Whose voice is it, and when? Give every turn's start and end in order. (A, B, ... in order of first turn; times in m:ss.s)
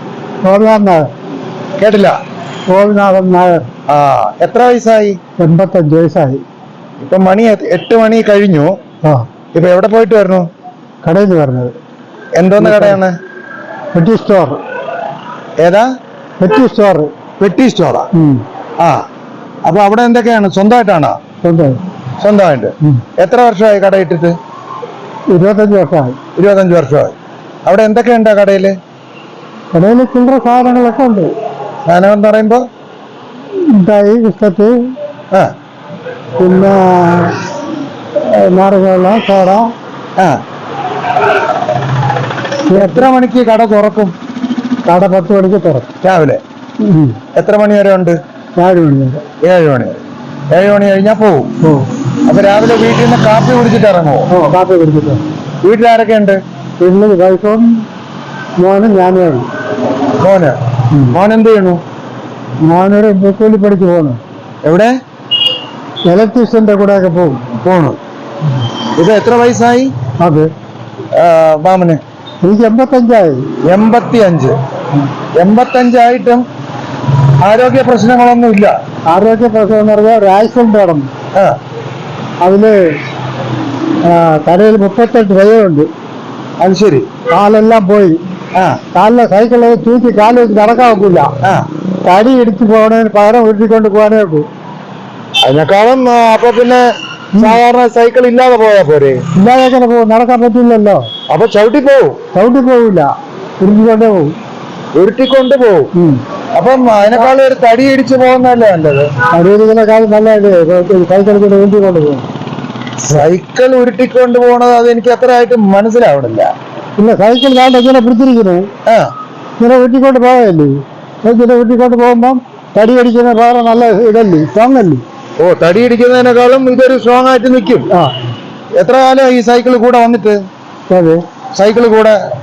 0:00.4-0:01.1 A
0:01.8-0:02.2 B
0:02.7-0:03.7 A
0:03.9-0:05.2 B
0:05.4-0:06.4 A
0:07.0-0:08.7 B
0:09.5-0:10.5 B
0:11.0-0:11.7 A
0:12.4-0:13.1 B
0:12.6-0:13.0 A
0:13.9-0:14.6 A
0:15.6-0:15.9 B
0:16.4-0:17.1 A
0:17.4-0:18.1 B
0:18.1-0:18.4 A
0:19.6-0:21.2 B
0:21.4-0:21.8 A
0:22.2-0:24.4 B
0:25.3-0:26.2 A
0:26.4-0:27.1 B
0:27.6-0:28.7 B
0:29.7-0:31.3 A
0:31.8-0:32.6 B
0:33.7-0:34.7 A
0:36.4-0:37.4 A
0:38.2-0:39.7 A
0:42.7-0:43.0 A
0:42.7-0:44.1 B
0:44.8-0:45.9 A
0:46.0-0:46.4 B
0:46.8-0:47.2 A
0:47.3-0:48.2 B
0:48.6-0:49.2 A
0:49.4-0:51.5 B
0:51.6-0:51.9 A
0:52.2-0:54.3 B
0:54.3-0:55.2 A
0:55.6-0:56.4 B
0:56.8-0:57.8 A
0:58.6-0:59.5 A
1:00.2-1:01.8 B
1:02.6-1:04.2 A
1:04.6-1:04.9 B
1:06.1-1:07.4 A
1:07.6-1:08.0 B
1:09.0-1:09.9 B
1:10.2-1:10.5 A
1:11.1-1:12.0 B
1:12.4-1:13.5 A
1:13.6-1:14.6 B
1:15.4-1:16.4 B
1:17.4-1:18.7 B
1:19.1-1:21.1 A
1:22.4-1:22.7 A
1:24.0-1:25.9 A
1:26.6-1:27.1 B
1:27.3-1:28.2 A
1:28.5-1:28.8 B
1:28.9-1:31.3 A
1:32.0-1:34.4 A
1:35.4-1:39.2 B
1:39.3-1:41.1 A
1:41.3-1:42.2 B
1:42.3-1:44.3 A
1:44.9-1:45.9 B
1:45.9-1:46.2 A
1:46.5-1:49.1 B
1:49.3-1:52.2 A
1:53.0-1:56.5 B
1:57.0-1:58.7 A
1:59.6-2:05.0 A
2:05.4-2:07.9 B
2:08.8-2:10.4 B
2:10.9-2:11.2 A
2:11.5-2:12.2 B